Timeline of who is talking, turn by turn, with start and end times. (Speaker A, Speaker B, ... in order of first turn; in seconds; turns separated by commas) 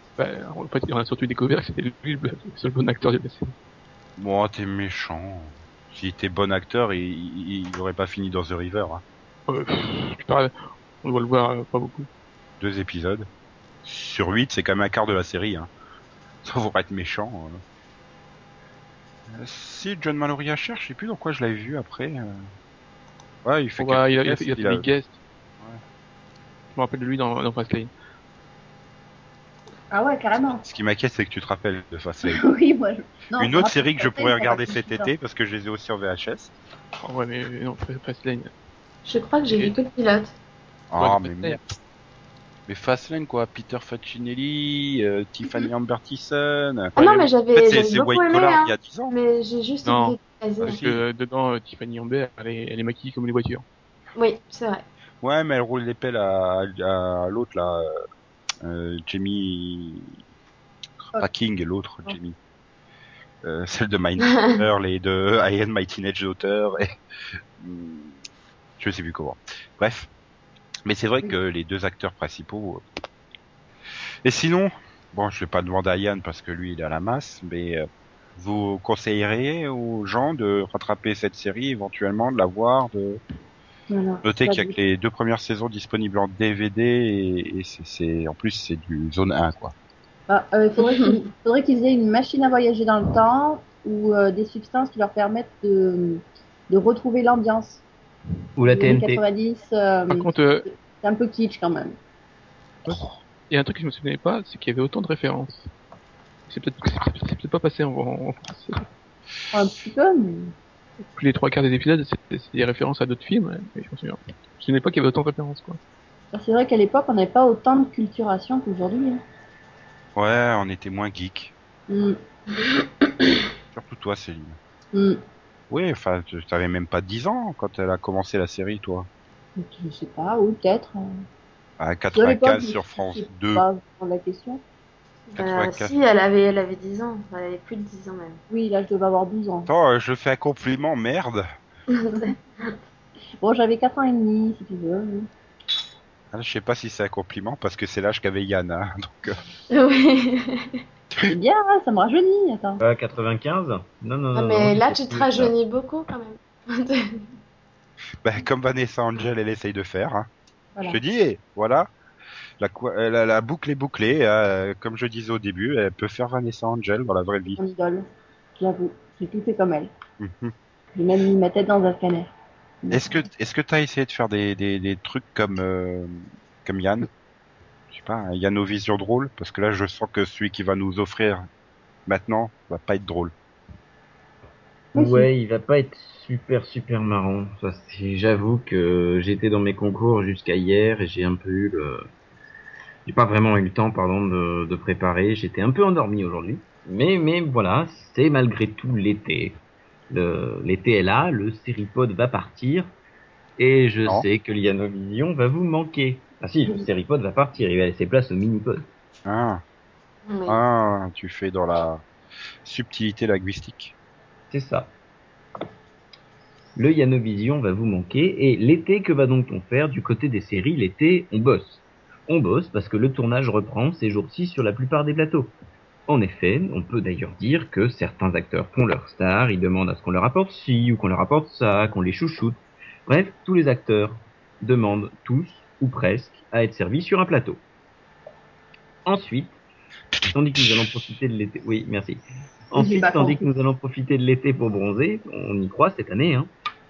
Speaker A: 0.2-3.5, Speaker B: 4.2-9.0, Speaker A: 9.5-12.1, Speaker B: 12.6-13.3, Speaker B: 13.8-15.7, Speaker B: 16.4-17.6, Speaker B: 19.3-22.4, Speaker B: 23.4-24.9, Speaker A: 23.8-25.2, Speaker A: 26.8-27.9, Speaker C: 29.9-30.6, Speaker B: 30.6-32.4, Speaker C: 32.3-35.1, Speaker B: 33.4-36.5, Speaker A: 37.0-38.5, Speaker D: 39.1-40.3, Speaker A: 39.5-39.8, Speaker B: 40.9-41.6, Speaker A: 41.0-41.6, Speaker B: 42.7-46.9, Speaker D: 47.0-50.8, Speaker A: 47.0-47.3, Speaker B: 47.5-49.1, Speaker A: 49.9-53.6, Speaker B: 50.6-51.0, Speaker D: 54.2-54.8, Speaker B: 55.2-57.9, Speaker B: 58.6-60.1, Speaker B: 61.1-62.4, Speaker B: 63.4-66.9, Speaker B: 67.6-68.2, Speaker B: 68.8-70.1, Speaker B: 70.8-72.8, Speaker B: 74.2-83.2, Speaker C: 83.9-84.8, Speaker B: 84.2-89.7, Speaker C: 90.3-97.8, Speaker E: 98.6-99.2, Speaker C: 98.6-102.0, Speaker A: 100.1-100.7, Speaker B: 102.9-103.2, Speaker A: 102.9-105.7, Speaker A: 106.5-108.9, Speaker C: 109.5-110.5, Speaker A: 111.1-115.8, Speaker C: 116.3-119.2, Speaker B: 120.2-121.5, Speaker C: 121.9-122.9, Speaker B: 123.7-124.6, Speaker C: 124.9-125.2, Speaker B: 125.7-129.1, Speaker C: 129.6-131.1, Speaker B: 131.8-133.7, Speaker C: 132.2-134.6, Speaker D: 135.3-138.4, Speaker B: 135.3-135.9, Speaker C: 138.5-139.7, Speaker B: 139.7-141.5, Speaker D: 142.1-142.7, Speaker C: 143.4-145.3, Speaker B: 146.3-149.4, Speaker D: 149.7-150.8, Speaker C: 151.3-152.8, Speaker E: 152.8-155.5, Speaker D: 154.3-157.2, Speaker B: 158.2-160.3, Speaker B: 160.9-161.9, Speaker B: 162.6-167.6, Speaker C: 167.6-169.9, Speaker B: 170.2-170.5, Speaker C: 170.9-172.3, Speaker C: 172.8-173.2, Speaker B: 172.9-177.1, Speaker B: 177.9-181.5, Speaker B: 182.1-183.3, Speaker E: 184.9-192.1, Speaker C: 184.9-185.3, Speaker E: 193.1-202.9, Speaker E: 203.6-208.9, Speaker B: 209.2-209.6, Speaker D: 210.3-210.6, Speaker B: 210.5-212.0, Speaker B: 212.6-213.9, Speaker E: 214.5-214.9, Speaker E: 216.8-225.6, Speaker E: 226.1-237.6, Speaker E: 239.1-239.6, Speaker E: 240.3-246.5, Speaker C: 242.8-243.4